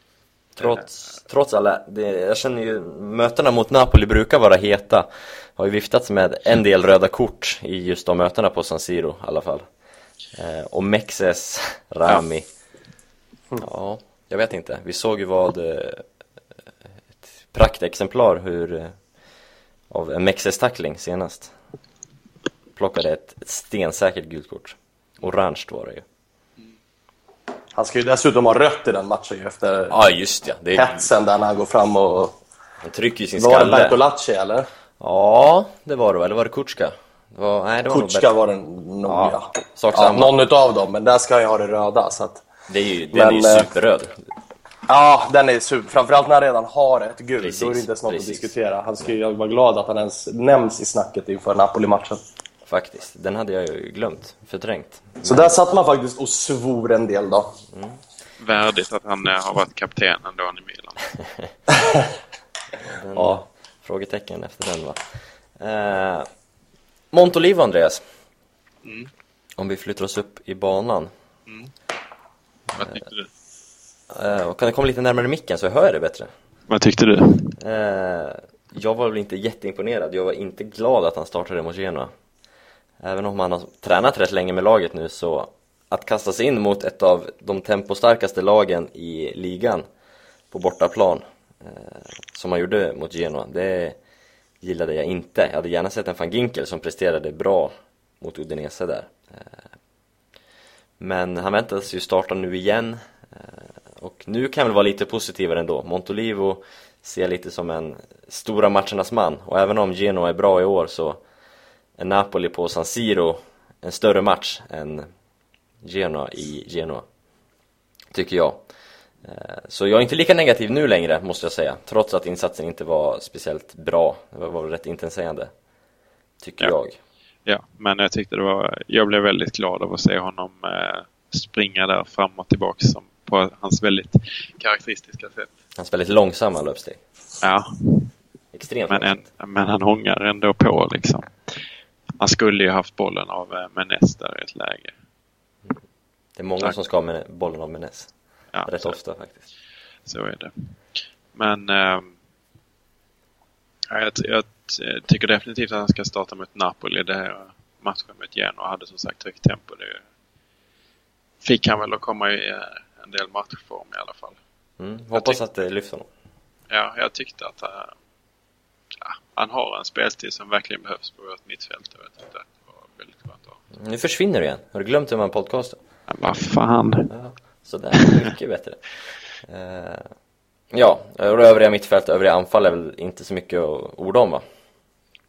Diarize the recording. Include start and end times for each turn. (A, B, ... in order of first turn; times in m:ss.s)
0:00.6-0:09.6 A
0:10.4-0:12.4 A
0:13.6-0:16.0 A
0:17.4-0:18.9 A
0:19.9-0:21.5 A
0:22.8-0:26.0 A
0:27.7-0:29.9 B
0:29.9-0:31.1 A
0:30.7-0:32.3 B
0:32.8-0:34.0 A
0:33.4-0:34.7 B
0:35.0-0:38.3 A
0:37.9-0:42.4 B
0:39.0-0:40.3 A
0:42.7-0:44.1 A
0:43.1-0:43.7 B
0:44.9-0:52.2 B
0:47.4-0:48.5 A
0:52.7-0:55.5 A
0:55.2-0:57.5 B
0:57.7-0:58.0 A
0:58.4-1:01.0 C
1:02.8-1:05.0 A
1:05.6-1:06.3 A
1:07.1-1:08.0 A
1:08.8-1:09.1 C
1:09.6-1:11.1 A
1:12.7-1:13.3 C
1:14.1-1:16.3 A
1:16.7-1:17.5 C
1:17.6-1:22.1 A
1:23.0-1:29.8 A
1:30.5-1:34.0 A
1:34.6-1:39.5 A
1:41.0-1:51.2 A
1:52.0-1:55.1 A
1:55.8-1:57.0 A
1:58.1-1:58.6 A
1:59.2-2:05.5 A
2:06.4-2:07.0 A
2:07.4-2:15.5 C
2:15.8-2:17.0 A
2:17.4-2:18.1 C
2:18.5-2:19.2 A
2:18.9-2:21.3 C
2:22.2-2:24.9 C
2:26.4-2:28.1 A
2:28.5-2:28.9 C
2:28.6-2:29.4 A
2:30.1-2:30.5 C
2:31.3-2:32.1 C
2:33.9-2:40.0 C
2:41.4-2:44.4 C
2:44.8-2:46.1 A
2:46.7-2:47.9 C
2:49.0-2:53.6 C
2:53.8-2:55.8 A
2:56.1-2:57.1 C
2:57.1-3:00.1 A
3:00.7-3:04.4 A